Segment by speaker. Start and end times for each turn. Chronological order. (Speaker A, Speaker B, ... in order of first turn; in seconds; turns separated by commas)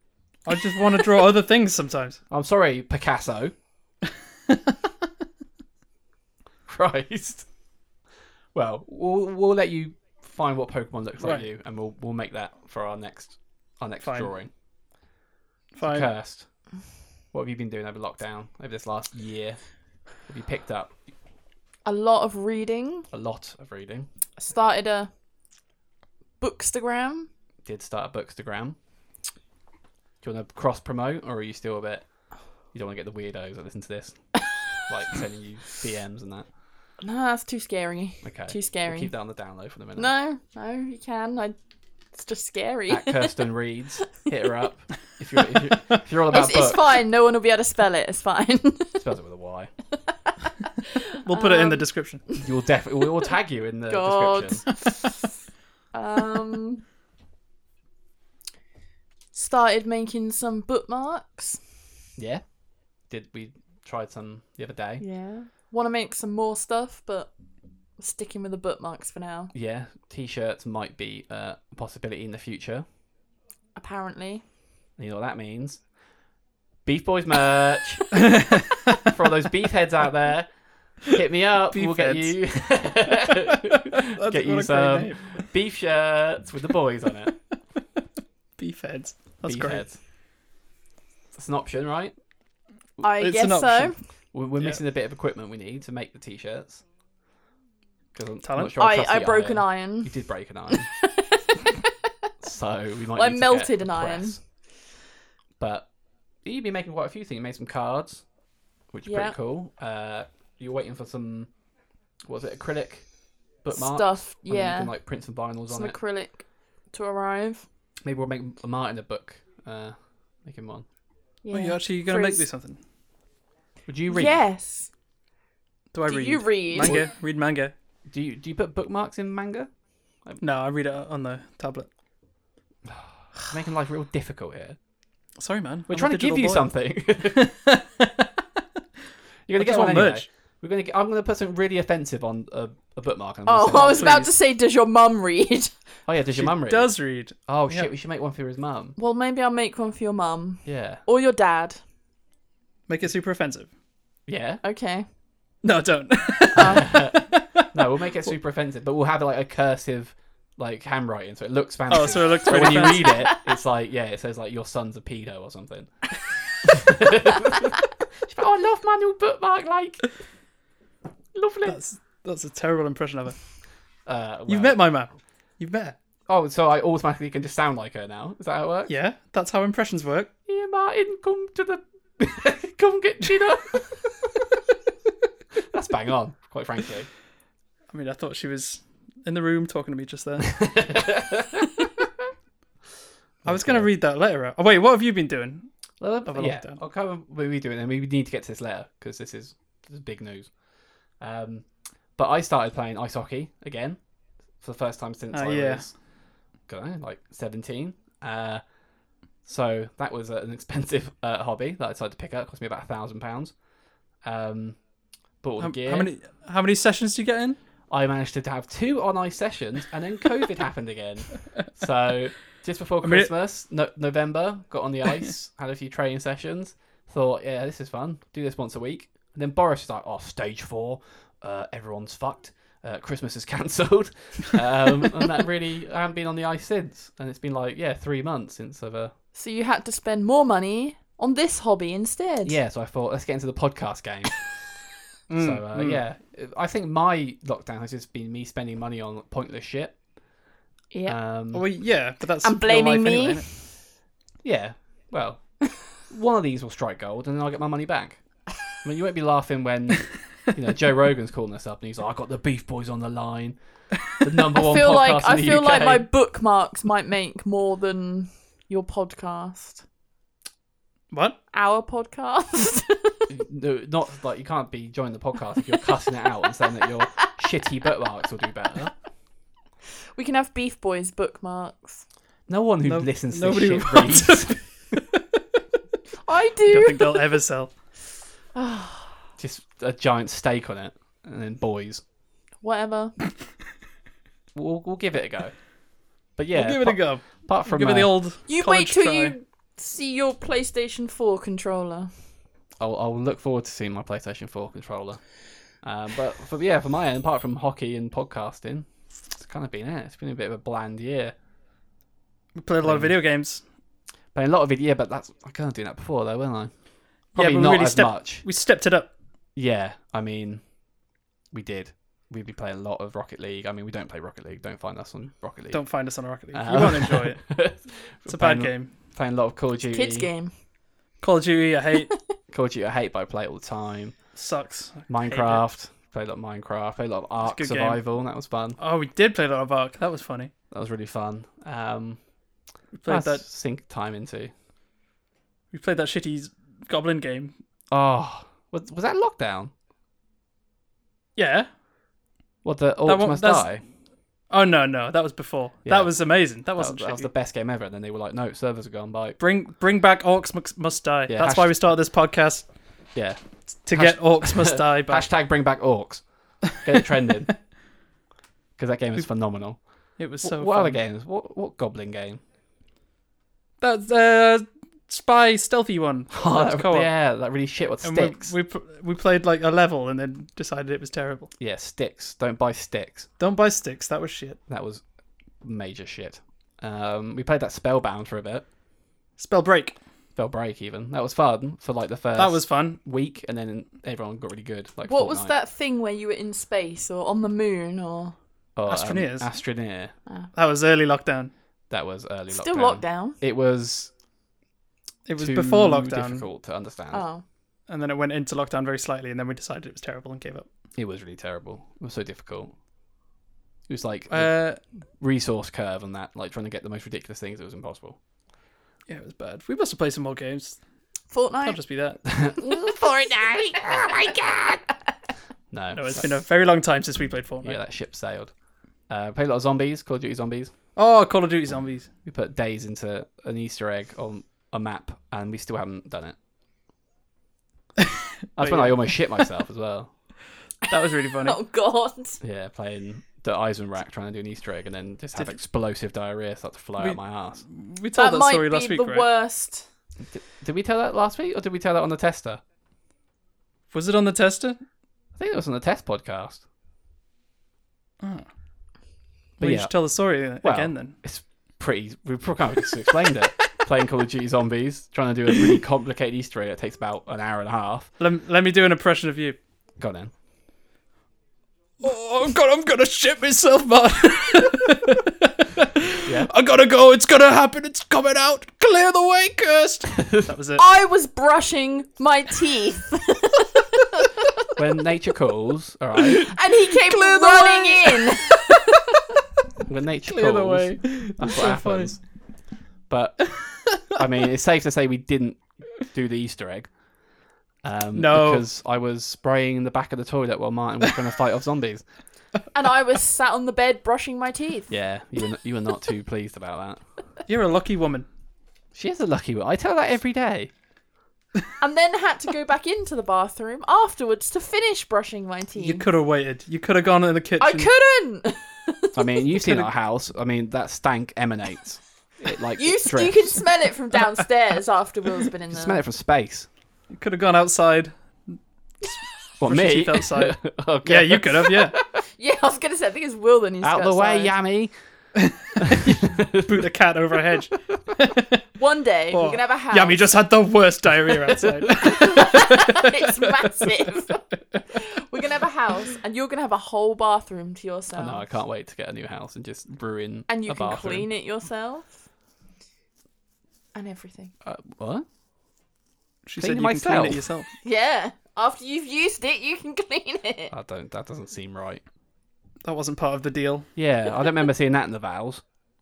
Speaker A: 0.5-2.2, Speaker B: 2.3-3.5, Speaker B: 6.7-7.5, Speaker B: 8.5-14.5, Speaker A: 14.0-14.3, Speaker A: 15.7-16.1, Speaker B: 15.8-16.5, Speaker B: 17.3-21.0, Speaker C: 21.8-23.1, Speaker B: 23.1-24.1, Speaker C: 24.4-25.1, Speaker C: 26.4-27.3, Speaker B: 27.6-28.8, Speaker B: 30.2-36.5, Speaker C: 37.0-39.1, Speaker B: 38.2-40.1, Speaker C: 40.0-41.5, Speaker C: 42.1-43.4, Speaker B: 42.9-46.8, Speaker C: 46.3-49.0, Speaker B: 49.0-49.7, Speaker C: 50.8-52.5, Speaker A: 51.2-52.2, Speaker B: 52.4-54.8, Speaker C: 53.9-55.0, Speaker C: 55.9-56.8, Speaker C: 59.3-61.6, Speaker B: 62.2-62.4, Speaker B: 63.1-65.0, Speaker C: 65.0-67.3, Speaker C: 68.0-69.5, Speaker B: 69.5-72.8, Speaker C: 73.8-74.4, Speaker B: 75.0-75.8, Speaker B: 76.8-78.2, Speaker A: 78.3-78.8, Speaker B: 79.0-87.3, Speaker A: 81.7-82.5, Speaker A: 83.2-85.5, Speaker A: 88.6-89.9, Speaker B: 89.4-90.0, Speaker B: 91.3-92.1, Speaker C: 93.0-94.0, Speaker A: 93.2-94.0, Speaker B: 94.3-96.8, Speaker B: 98.1-100.9, Speaker A: 98.4-98.8, Speaker C: 98.8-101.9, Speaker B: 102.4-104.4, Speaker C: 103.1-104.4, Speaker B: 105.6-105.9, Speaker B: 106.4-108.2, Speaker B: 108.9-111.5, Speaker C: 109.0-109.3, Speaker B: 112.2-116.0, Speaker C: 113.7-114.9, Speaker C: 115.7-117.7, Speaker B: 118.0-120.8, Speaker C: 121.4-122.4, Speaker A: 121.5-122.8, Speaker B: 123.9-124.4, Speaker C: 124.1-124.9, Speaker A: 125.9-127.7, Speaker C: 126.0-127.0, Speaker B: 126.8-127.1, Speaker B: 128.1-129.7, Speaker A: 130.4-131.9, Speaker B: 132.8-134.8, Speaker A: 135.4-136.7, Speaker B: 135.9-137.5, Speaker A: 137.3-138.3, Speaker B: 139.5-144.2, Speaker A: 139.6-140.2, Speaker C: 143.4-145.7, Speaker A: 143.7-144.3, Speaker B: 146.1-148.9, Speaker A: 146.3-147.9, Speaker C: 149.0-151.8, Speaker B: 150.6-151.0, Speaker A: 152.9-153.7, Speaker B: 154.3-154.6, Speaker C: 154.6-155.1, Speaker A: 155.6-157.7, Speaker C: 156.6-156.8, Speaker B: 156.6-165.9, Speaker A: 161.9-163.2, Speaker C: 163.0-163.4, Speaker B: 166.6-170.1, Speaker B: 171.3-171.8, Speaker A: 171.7-173.4, Speaker B: 174.1-174.8, Speaker A: 174.5-175.9, Speaker B: 176.3-178.9, Speaker A: 178.9-180.3, Speaker B: 180.5-184.3, Speaker B: 185.6-187.1, Speaker A: 187.9-190.7, Speaker B: 190.5-191.7, Speaker B: 193.4-193.9, Speaker A: 193.4-195.7, Speaker B: 196.0-200.5, Speaker A: 196.3-196.8, Speaker B: 201.2-204.0, Speaker B: 204.6-205.9, Speaker A: 205.3-205.9, Speaker B: 206.7-208.6, Speaker B: 209.4-213.5, Speaker B: 214.2-214.8, Speaker B: 215.4-216.1, Speaker A: 215.6-217.6, Speaker B: 217.9-239.1, Speaker A: 223.0-223.3, Speaker C: 239.3-242.6, Speaker B: 242.4-244.5, Speaker A: 245.3-246.0, Speaker B: 245.4-249.9, Speaker C: 250.9-251.2, Speaker B: 251.1-251.7, Speaker A: 251.5-253.5, Speaker C: 252.4-253.6, Speaker B: 254.4-255.4, Speaker B: 256.0-258.2, Speaker B: 258.8-266.1, Speaker C: 264.5-269.8, Speaker C: 271.5-273.2, Speaker B: 273.3-278.9, Speaker C: 280.1-282.0, Speaker B: 282.5-284.7, Speaker A: 282.9-284.7, Speaker C: 286.2-287.3, Speaker A: 286.7-287.7, Speaker C: 288.5-289.2, Speaker B: 289.4-292.0, Speaker C: 292.6-293.2, Speaker B: 294.5-295.5, Speaker B: 296.4-298.1, Speaker A: 296.5-299.3, Speaker C: 298.5-302.1, Speaker B: 302.8-311.3, Speaker A: 312.6-313.6, Speaker B: 312.8-313.1, Speaker B: 314.3-316.7, Speaker B: 317.3-318.4, Speaker A: 317.4-319.1, Speaker B: 319.6-320.6, Speaker B: 321.5-325.8, Speaker A: 325.7-327.5, Speaker B: 326.5-330.3, Speaker A: 328.3-328.9, Speaker C: 329.9-330.5, Speaker A: 331.2-332.1, Speaker B: 332.5-334.2, Speaker A: 334.3-335.6, Speaker B: 335.1-338.8, Speaker A: 337.4-338.0, Speaker A: 338.8-340.5, Speaker B: 340.7-342.2, Speaker A: 342.9-343.4, Speaker B: 343.1-344.5, Speaker A: 345.7-347.6, Speaker B: 347.9-349.7, Speaker A: 351.4-351.7, Speaker B: 352.6-353.8, Speaker A: 353.0-353.7, Speaker A: 354.5-357.3, Speaker B: 355.8-359.4, Speaker A: 359.4-362.6, Speaker B: 361.3-361.7, Speaker B: 363.1-367.5, Speaker A: 363.8-365.3, Speaker B: 368.8-369.8, Speaker A: 370.2-371.0, Speaker B: 370.4-372.4, Speaker A: 373.8-377.1, Speaker B: 376.3-378.5, Speaker A: 378.0-381.5, Speaker B: 381.6-383.3, Speaker A: 383.4-384.6, Speaker B: 384.7-385.0, Speaker B: 385.6-388.6, Speaker A: 389.4-390.0, Speaker B: 390.4-395.5, Speaker A: 392.4-393.0, Speaker C: 395.0-398.4, Speaker B: 398.8-400.1, Speaker A: 398.9-399.5, Speaker A: 400.5-401.5, Speaker B: 401.9-404.1, Speaker C: 402.5-403.4, Speaker A: 405.2-406.4, Speaker B: 405.4-407.2, Speaker C: 407.1-407.4, Speaker A: 407.9-410.7, Speaker B: 410.9-412.7, Speaker B: 413.9-414.6, Speaker A: 414.3-414.8, Speaker B: 415.2-418.2, Speaker A: 419.1-420.8, Speaker C: 421.3-421.8, Speaker A: 421.6-422.2, Speaker B: 422.2-424.8, Speaker C: 422.6-424.3, Speaker B: 425.7-426.3, Speaker A: 425.9-427.8, Speaker B: 427.6-428.5, Speaker B: 429.1-430.7, Speaker A: 430.9-432.1, Speaker B: 432.2-436.4, Speaker A: 438.0-439.4, Speaker B: 438.6-440.1, Speaker A: 440.9-441.6, Speaker C: 441.4-442.4, Speaker B: 442.4-447.6, Speaker A: 447.0-449.2, Speaker C: 448.1-449.9, Speaker B: 450.2-452.6, Speaker A: 453.9-454.8, Speaker B: 455.4-456.6, Speaker A: 458.2-458.5, Speaker A: 459.6-461.1, Speaker B: 459.6-459.9, Speaker B: 460.6-468.1, Speaker A: 468.2-469.6, Speaker B: 470.0-470.3, Speaker A: 472.0-480.8, Speaker B: 476.2-476.5, Speaker B: 480.1-480.5, Speaker C: 480.8-484.4, Speaker B: 484.8-486.5, Speaker C: 486.4-488.8, Speaker A: 486.9-488.9, Speaker B: 489.9-492.2, Speaker A: 490.2-492.1, Speaker B: 493.1-496.9, Speaker B: 497.8-502.0, Speaker A: 498.1-498.6, Speaker C: 502.7-504.9, Speaker B: 504.9-507.0, Speaker A: 507.5-508.3, Speaker B: 508.9-510.7, Speaker C: 511.8-516.0, Speaker A: 515.8-517.9, Speaker C: 517.6-519.3, Speaker B: 519.1-523.6, Speaker A: 519.5-519.9, Speaker C: 522.7-526.0, Speaker B: 525.7-526.7, Speaker A: 527.1-528.6, Speaker A: 529.6-532.0, Speaker B: 529.6-532.1, Speaker C: 532.4-534.5, Speaker B: 533.8-534.9, Speaker A: 535.4-538.6, Speaker B: 535.8-536.9, Speaker C: 538.8-540.3, Speaker A: 539.3-543.4, Speaker C: 542.0-548.4, Speaker B: 548.1-551.3, Speaker C: 550.5-552.1, Speaker C: 553.9-554.5, Speaker B: 554.6-555.2, Speaker A: 556.5-557.7, Speaker B: 556.6-557.4, Speaker C: 557.8-560.7, Speaker B: 560.7-562.0, Speaker A: 562.8-563.9, Speaker B: 564.0-565.6